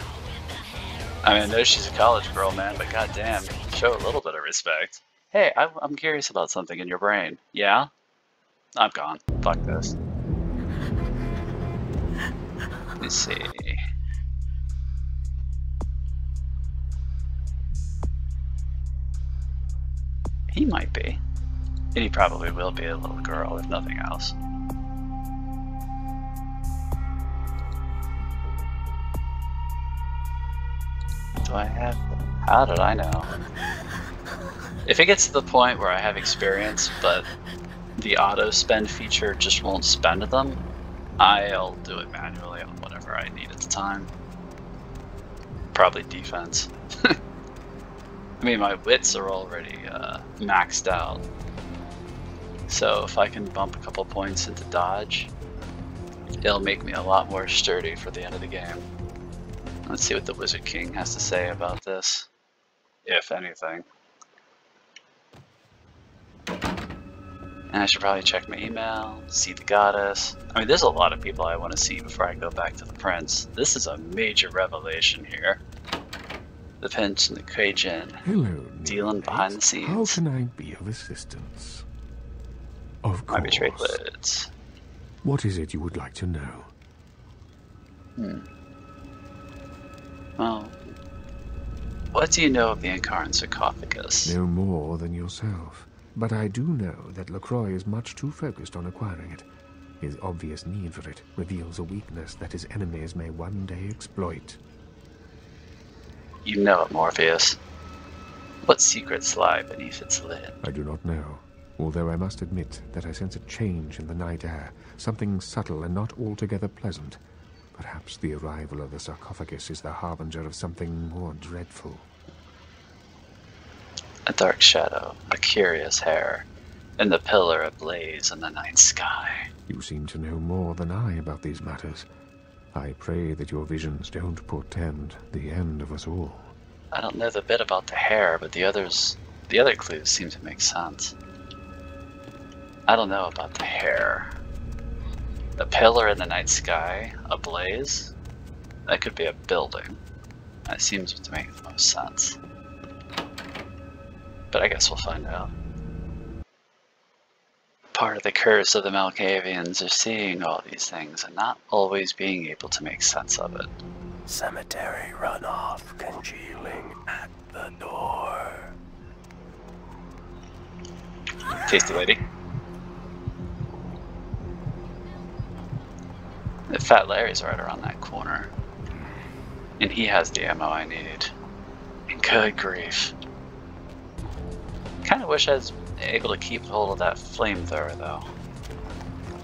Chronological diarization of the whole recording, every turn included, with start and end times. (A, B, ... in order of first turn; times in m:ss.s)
0:01.2-0:07.9 A
0:08.8-0:10.0 A
0:13.0-0:13.8 A
0:20.5-0:21.2 A
0:22.0-0:24.4 A
0:31.5-0:33.3 A
0:34.8-0:37.3 A
0:38.0-0:40.6 A
0:41.2-0:44.1 A
0:45.7-0:47.2 A
0:48.4-0:51.2 A
0:52.7-0:55.3 A
0:56.4-0:58.8 A
0:59.9-1:02.3 A
1:03.0-1:03.9 A
1:07.7-1:15.6 A
1:16.8-1:18.2 A
1:18.2-1:21.9 B
1:18.8-1:20.2 A
1:23.0-1:24.0 B
1:23.3-1:24.5 A
1:25.2-1:26.7 B
1:28.2-1:28.5 A
1:30.4-1:30.8 A
1:32.1-1:34.4 A
1:34.2-1:39.5 B
1:40.0-1:44.6 B
1:46.4-1:47.6 A
1:48.6-1:50.6 A
1:50.6-1:57.2 B
1:57.7-2:02.1 B
2:04.3-2:06.5 A
2:07.0-2:09.4 A
2:09.7-2:12.1 B
2:12.7-2:16.6 B
2:16.9-2:21.2 A
2:22.9-2:24.3 A
2:25.6-2:28.1 A
2:28.9-2:30.0 A
2:30.7-2:32.4 A
2:34.5-2:35.5 A
2:38.0-2:43.7 A
2:44.3-2:48.7 C
2:51.5-2:52.2 A
2:56.7-2:58.5 A
2:59.8-3:01.3 A
3:02.1-3:03.1 A
3:05.0-3:08.3 A